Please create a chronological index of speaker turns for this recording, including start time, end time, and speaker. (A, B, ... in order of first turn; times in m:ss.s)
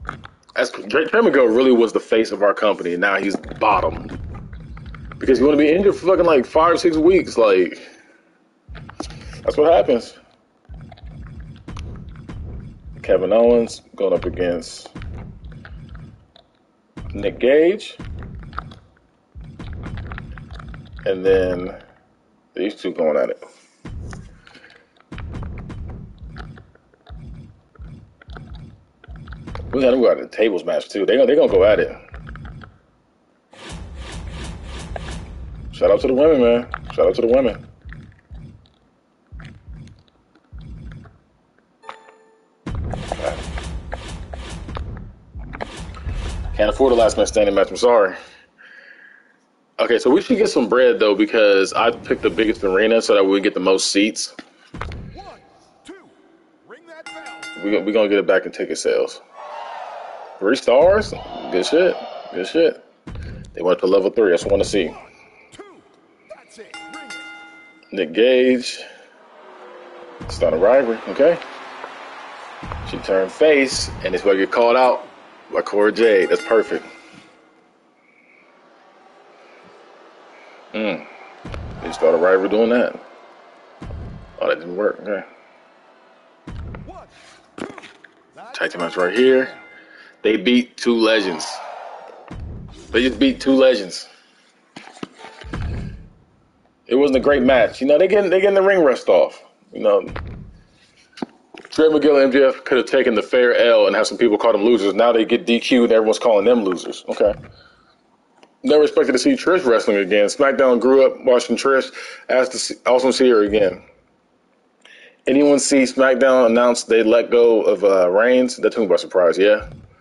0:00.6-0:04.2 A
0:05.2-0:07.8 A
0:09.4-0:10.2 A
0:13.0-0:14.9 A
0:17.1-0:18.0 A
0:21.0-0:21.8 A
0:22.5-0:23.4 A
0:29.7-0:32.0 A
0:35.7-0:37.6 A
0:46.5-0:48.2 A
0:49.8-0:54.3 A
0:55.1-0:57.6 B
0:57.6-0:59.2 A
1:00.4-1:02.8 A
1:03.5-1:05.0 A
1:05.5-1:07.3 B
1:07.9-1:08.8 A
1:10.3-1:11.4 A
1:12.8-1:16.9 A
1:20.7-1:21.1 A
1:21.8-1:23.0 A
1:24.4-1:25.2 A
1:26.8-1:29.6 B
1:28.5-1:29.5 A
1:30.2-1:31.6 A
1:32.9-1:34.1 A
1:36.9-1:40.1 A
1:41.7-1:47.4 A
1:48.6-1:53.8 A
1:55.3-1:59.6 A